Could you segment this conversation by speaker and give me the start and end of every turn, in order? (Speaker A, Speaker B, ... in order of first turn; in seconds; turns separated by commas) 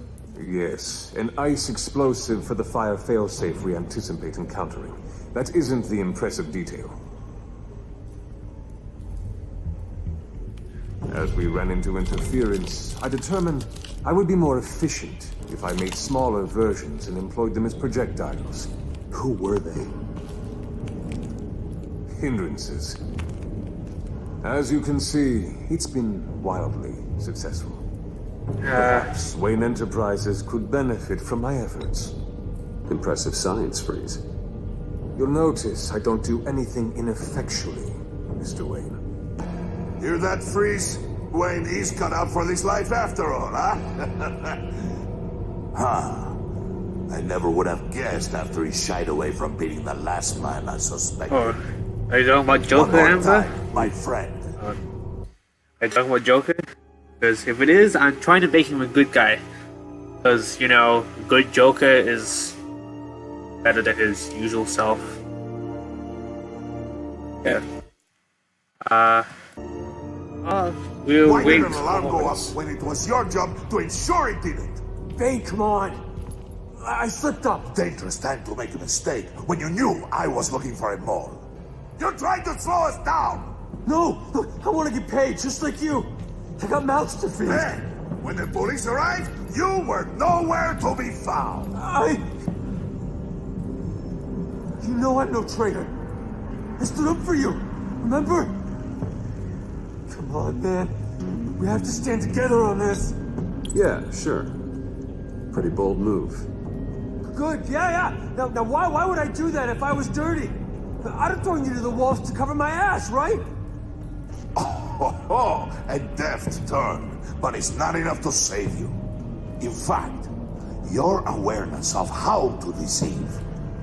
Speaker A: 0.3-6.9, Speaker A: 11.1-19.9, Speaker A: 22.1-23.0, Speaker A: 24.4-27.8, Speaker B: 28.6-29.1, Speaker A: 28.7-32.1, Speaker C: 32.9-34.2, Speaker A: 35.1-39.0, Speaker D: 40.0-44.6, Speaker D: 45.7-46.4, Speaker D: 47.1-51.6, Speaker B: 51.3-51.6, Speaker B: 52.1-53.5, Speaker D: 52.7-54.5, Speaker B: 55.8-56.6, Speaker B: 57.2-59.4, Speaker B: 60.2-62.5, Speaker B: 63.6-65.2, Speaker B: 68.8-69.3, Speaker B: 70.4-72.5, Speaker D: 71.2-74.8, Speaker A: 75.2-76.0, Speaker A: 76.8-77.7, Speaker D: 77.7-81.5, Speaker D: 82.0-83.5, Speaker A: 83.8-87.7, Speaker D: 87.4-91.7, Speaker A: 91.7-92.2, Speaker A: 94.8-95.9, Speaker A: 96.8-98.5, Speaker A: 100.1-100.9, Speaker A: 101.6-103.1, Speaker C: 103.7-104.5, Speaker C: 105.5-106.5, Speaker A: 107.3-113.4, Speaker D: 114.5-119.0, Speaker D: 119.6-120.3, Speaker D: 120.8-123.4